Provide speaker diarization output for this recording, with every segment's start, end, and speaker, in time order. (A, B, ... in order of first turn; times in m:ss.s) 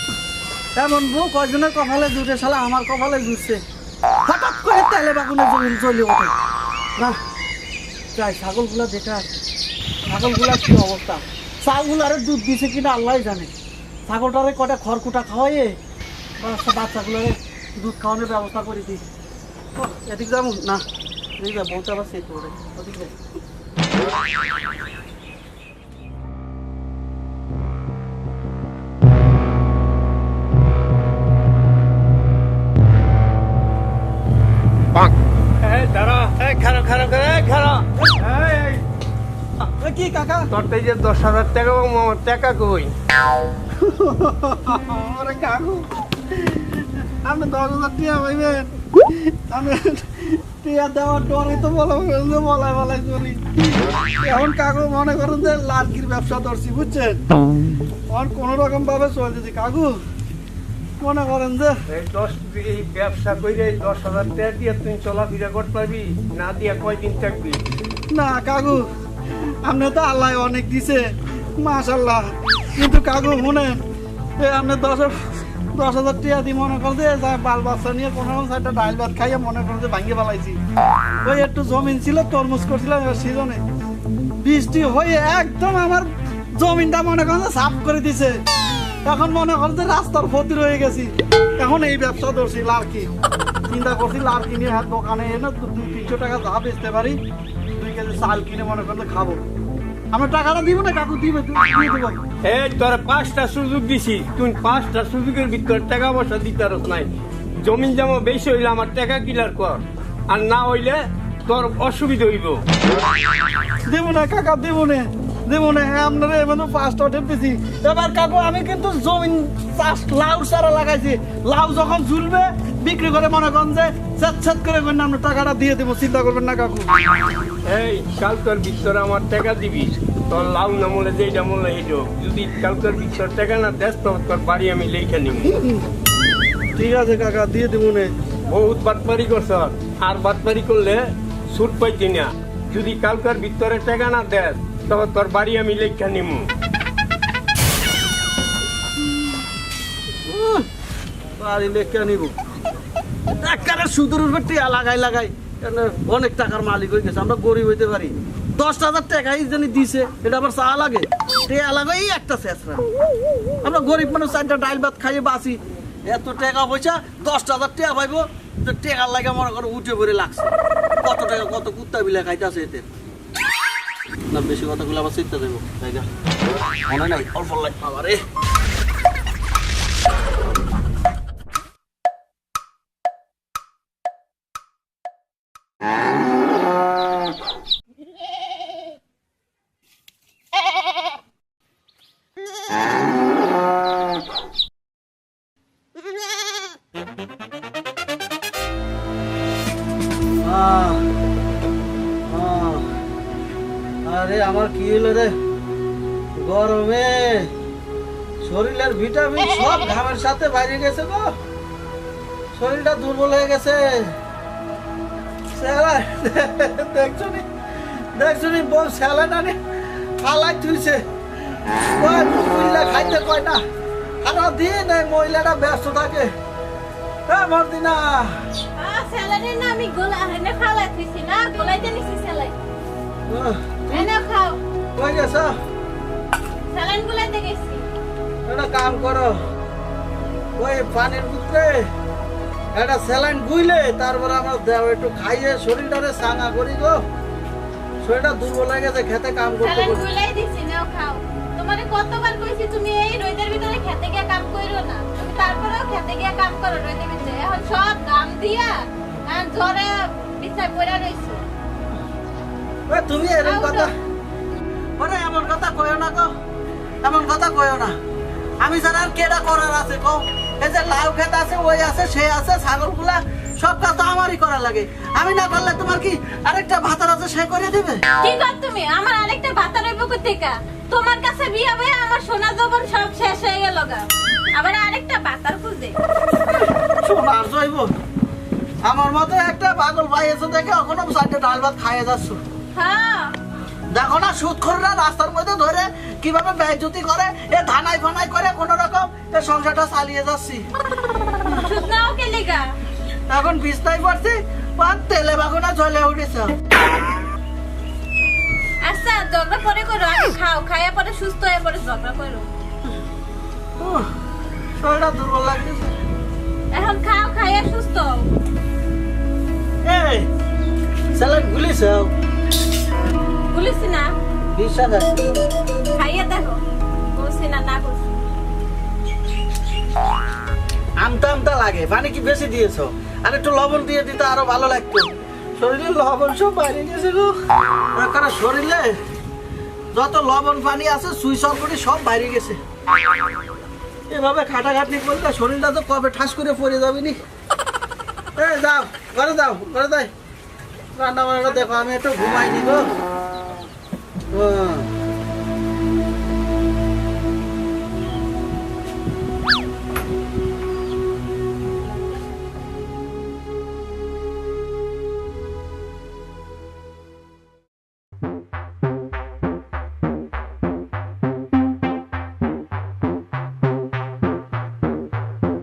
0:00.8-0:03.6 A
0:04.3-0:06.3 A
0:08.2-0:09.3 A
0:10.1-0:13.5 A
0:14.1-0:15.8 A
0:16.4-0:19.0 A
0:19.8-0:20.8 A
0:21.4-0:23.1 A
0:35.6-0:38.8 B
0:38.2-0:38.7 A
0:39.7-0:40.5 A
0:40.5-0:42.9 B
0:43.8-0:53.4 A
0:54.2-0:57.2 A
0:58.1-1:00.0 A
1:01.0-1:01.8 A
1:01.9-1:07.6 B
1:08.1-1:08.9 A
1:09.6-1:13.8 A
1:14.4-1:20.6 A
1:21.2-1:23.6 A
1:24.4-1:28.4 A
1:29.1-1:33.1 A
1:33.7-1:37.2 A
1:37.8-1:39.4 A
1:40.1-1:42.2 A
1:42.4-1:52.6 B
1:53.9-2:06.9 A
2:07.7-2:15.6 B
2:16.8-2:18.1 A
2:18.5-2:26.5 B
2:30.3-2:30.7 A
2:31.4-2:32.3 A
2:33.3-2:42.8 A
2:43.6-2:52.9 A
2:54.3-2:56.1 A
2:56.9-2:58.2 A
3:20.4-3:21.0 A
3:22.3-3:22.9 A
3:24.1-3:25.4 A
3:26.4-3:27.5 A
3:28.4-3:31.4 A
3:32.6-3:34.2 A
3:35.5-3:37.5 A
3:38.1-3:39.6 A
3:40.2-3:41.0 A
3:42.0-3:43.6 A
3:44.2-3:46.3 A
3:47.3-3:48.4 A
3:48.8-3:52.6 C
3:53.3-3:54.1 A
3:53.9-3:54.6 C
3:55.0-3:55.6 A
3:56.7-3:57.9 C
3:58.5-3:59.4 A
4:00.6-4:01.9 A
4:02.7-4:07.0 A
4:08.0-4:10.0 A
4:09.6-4:21.4 C
4:22.9-4:23.9 A
4:23.4-4:23.9 C
4:25.0-4:26.3 A
4:27.0-4:28.0 A
4:28.6-4:38.0 A
4:38.2-4:46.0 C
4:46.4-4:47.9 A
4:48.8-4:52.4 A
4:52.8-4:53.4 C
4:53.9-5:00.6 A
5:01.5-5:02.7 C
5:03.3-5:06.6 A
5:08.8-5:12.5 C
5:13.8-5:14.1 A
5:14.8-5:16.0 A
5:16.7-5:18.3 C
5:19.8-5:20.3 A
5:21.2-5:22.1 A
5:23.5-5:24.1 C
5:24.6-5:25.3 A
5:26.0-5:26.6 C
5:27.2-5:28.1 C
5:31.0-5:37.4 A
5:38.0-5:39.0 A
5:39.9-5:42.6 A
5:44.1-5:47.2 A
5:48.4-5:50.1 A
5:51.0-5:52.9 A
5:54.3-5:54.9 A